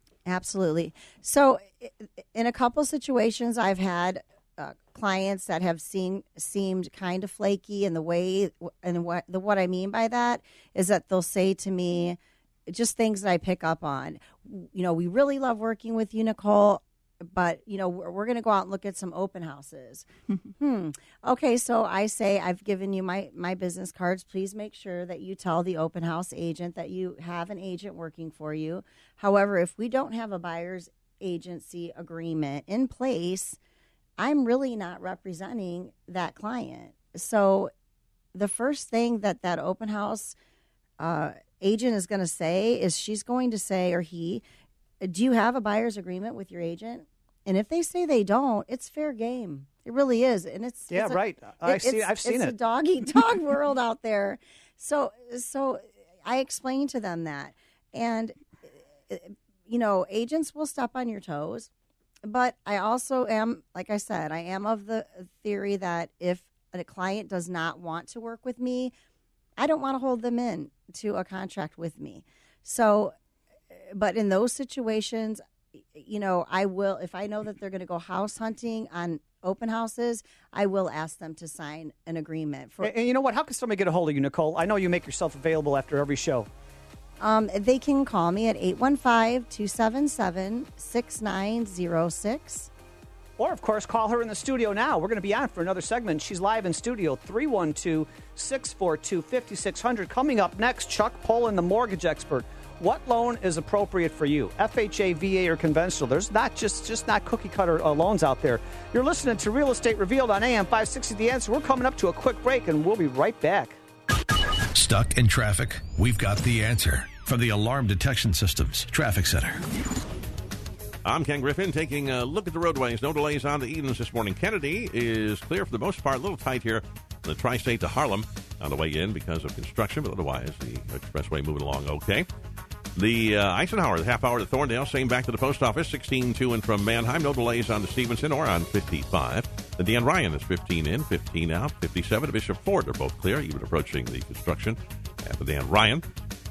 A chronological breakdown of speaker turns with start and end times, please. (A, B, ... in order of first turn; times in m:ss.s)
0:00.3-0:33.6 A
0:34.2-0:37.7 A
0:38.3-0:40.4 A
0:41.0-0:44.4 A
0:45.0-1:01.7 A
0:50.9-0:52.5 B
1:02.2-1:08.9 A
1:09.6-1:13.1 A
1:13.7-1:22.9 A
1:22.8-1:26.5 B
1:27.2-1:32.7 A
1:33.4-1:53.8 B
1:54.7-1:59.6 C
2:01.0-2:12.3 D
2:13.0-2:26.0 D